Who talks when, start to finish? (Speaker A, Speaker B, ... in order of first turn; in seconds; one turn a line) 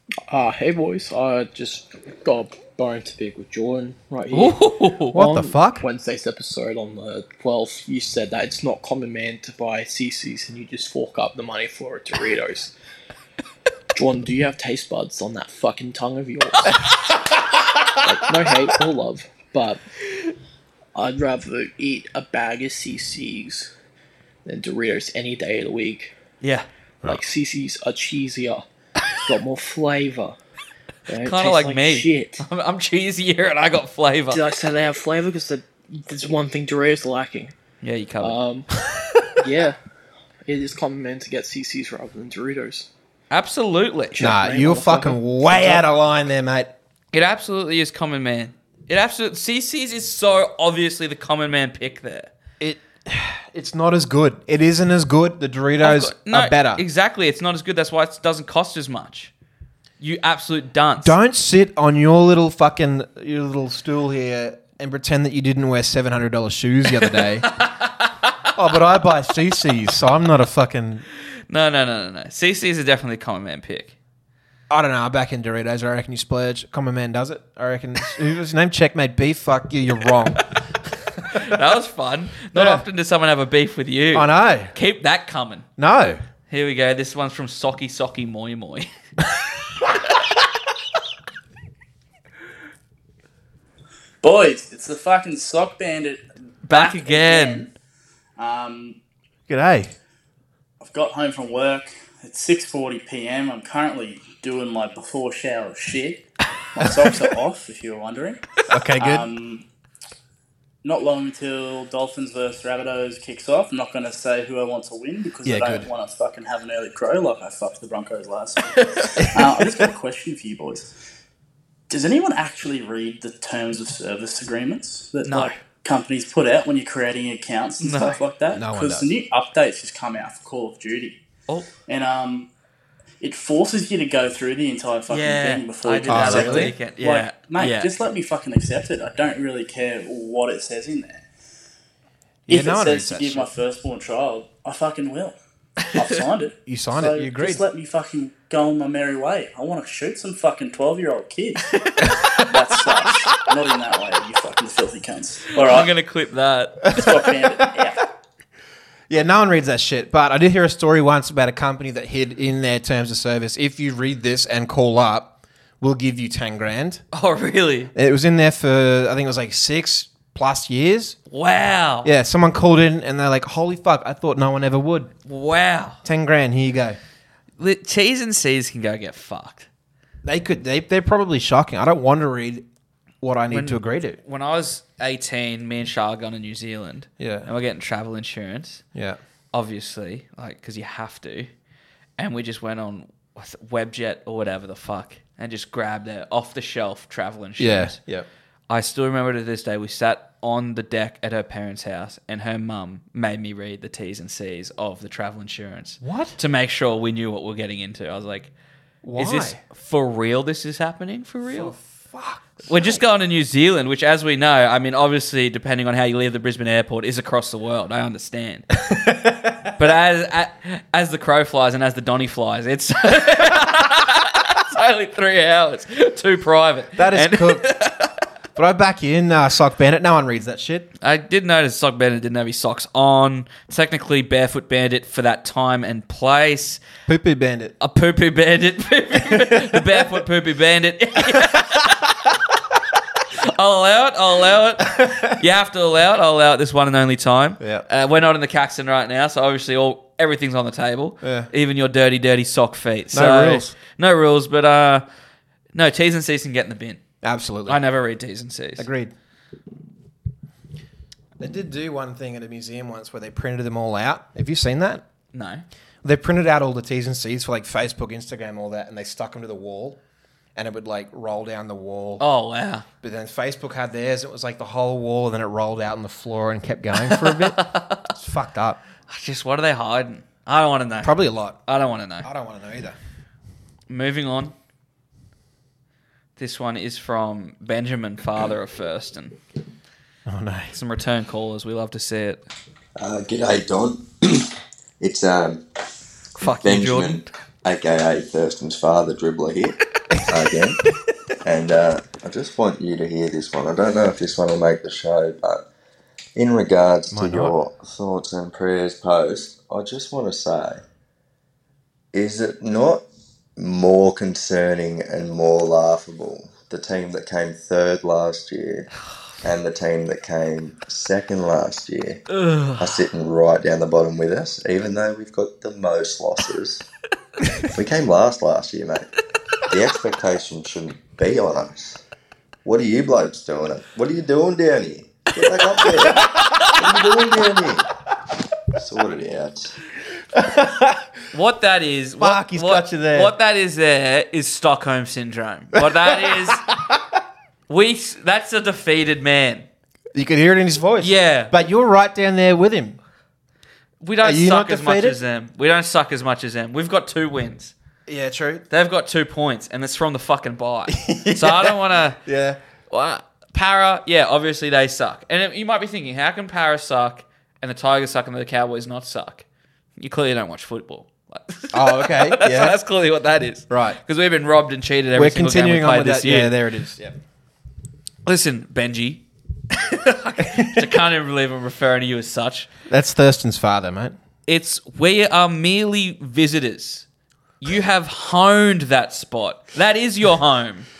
Speaker A: 0.3-4.6
Speaker B: 4.3-5.2
Speaker C: 5.1-5.8
Speaker A: 5.1-12.7
Speaker A: 13.9-16.9
Speaker A: 17.9-19.8
Speaker A: 20.9-23.7
Speaker A: 24.4-26.1
Speaker A: 27.1-28.6
Speaker A: 29.2-30.4
Speaker A: 31.1-32.4
Speaker B: 31.2-34.4
Speaker A: 34.3-37.5
Speaker B: 37.8-38.4
Speaker A: 38.2-38.7
Speaker A: 39.4-39.8
Speaker A: 40.5-42.9
Speaker B: 43.3-44.2
Speaker A: 44.1-45.8
Speaker C: 44.2-46.7
Speaker B: 47.1-52.3
Speaker C: 52.6-56.8
Speaker B: 55.8-59.3
Speaker B: 60.0-61.2
Speaker C: 61.0-67.5
Speaker B: 67.2-68.1
Speaker C: 68.5-71.0
Speaker B: 71.5-74.0
Speaker C: 74.7-80.5
Speaker B: 81.2-85.7
Speaker C: 82.5-82.8
Speaker C: 84.1-84.8
Speaker C: 85.8-86.2
Speaker B: 86.5-88.9
Speaker D: 94.2-97.7
Speaker B: 96.7-97.7
Speaker D: 98.4-99.0
Speaker C: 99.5-99.9
Speaker D: 100.8-109.6
Speaker C: 108.7-109.3
Speaker D: 110.8-120.9
Speaker C: 115.5-115.9
Speaker B: 118.7-119.3
Speaker C: 119.2-119.8
Speaker D: 121.9-131.2
Speaker B: 125.2-125.6
Speaker B: 127.8-128.2
Speaker C: 128.5-129.1
Speaker D: 131.9-132.5
Speaker D: 133.2-141.3
Speaker B: 135.1-137.9
Speaker C: 136.1-136.8
Speaker C: 142.5-143.5
Speaker D: 142.5-145.4
Speaker D: 145.9-151.7
Speaker C: 146.7-147.7
Speaker B: 151.7-152.4
Speaker C: 152.0-152.4
Speaker D: 152.2-155.9
Speaker B: 155.6-157.3
Speaker D: 156.9-158.0
Speaker C: 159.1-167.0
Speaker B: 167.1-167.9
Speaker C: 167.9-171.2
Speaker B: 171.3-172.1
Speaker C: 172.0-175.1
Speaker B: 175.3-176.0
Speaker C: 176.0-177.0
Speaker B: 177.6-179.7
Speaker C: 180.2-182.7
Speaker C: 183.2-184.2
Speaker B: 183.5-188.8
Speaker C: 187.2-187.5
Speaker B: 189.5-191.5
Speaker B: 192.2-198.0
Speaker C: 197.6-198.3
Speaker B: 198.7-208.5
Speaker C: 206.0-206.4
Speaker C: 209.0-209.6
Speaker B: 209.2-211.8
Speaker C: 211.5-213.0
Speaker B: 212.7-218.8
Speaker C: 218.9-219.8
Speaker B: 219.8-228.2
Speaker C: 227.0-227.7
Speaker C: 228.6-230.9
Speaker B: 231.0-236.8
Speaker C: 237.1-237.8
Speaker B: 237.8-242.2
Speaker C: 239.2-240.0
Speaker C: 241.4-241.7
Speaker B: 243.4-255.1
Speaker C: 245.0-245.2
Speaker C: 247.6-247.9
Speaker C: 251.2-251.5
Speaker C: 253.1-253.7
Speaker B: 255.8-257.0
Speaker C: 257.2-257.8
Speaker B: 257.7-258.9
Speaker C: 258.8-259.1
Speaker C: 261.4-265.0
Speaker B: 265.3-265.6
Speaker C: 266.0-270.0
Speaker C: 270.6-272.2
Speaker B: 272.2-272.9
Speaker C: 273.0-278.8
Speaker B: 277.1-278.1
Speaker B: 279.1-281.1
Speaker C: 281.0-281.6
Speaker B: 281.7-282.3
Speaker C: 282.2-283.0
Speaker B: 283.9-284.5
Speaker B: 286.4-289.4
Speaker C: 290.3-290.8
Speaker B: 290.7-292.4
Speaker E: 293.0-295.6
Speaker B: 296.4-297.3
Speaker E: 296.5-300.8
Speaker E: 301.4-305.6
Speaker E: 306.4-310.8
Speaker C: 307.1-307.6
Speaker E: 312.1-313.1
Speaker E: 313.6-318.9
Speaker E: 319.4-322.2
Speaker B: 322.3-322.9
Speaker E: 322.8-326.9
Speaker E: 327.7-329.1
Speaker E: 329.7-332.0
Speaker E: 332.6-337.9
Speaker B: 336.5-336.8
Speaker E: 338.8-339.8
Speaker C: 340.3-341.1
Speaker B: 341.3-346.7
Speaker C: 342.2-343.3
Speaker C: 345.8-347.0
Speaker B: 347.7-349.7
Speaker C: 350.1-353.0
Speaker B: 351.0-351.5
Speaker B: 354.0-357.7
Speaker C: 354.2-355.2
Speaker C: 358.1-358.7
Speaker B: 358.7-362.2
Speaker C: 360.9-362.6
Speaker B: 362.9-369.4
Speaker B: 370.0-376.6
Speaker C: 371.7-372.8
Speaker C: 373.7-374.0
Speaker C: 375.1-377.1
Speaker B: 378.3-382.7
Speaker C: 380.4-380.9
Speaker C: 382.9-384.2
Speaker B: 384.5-387.1
Speaker B: 387.6-390.9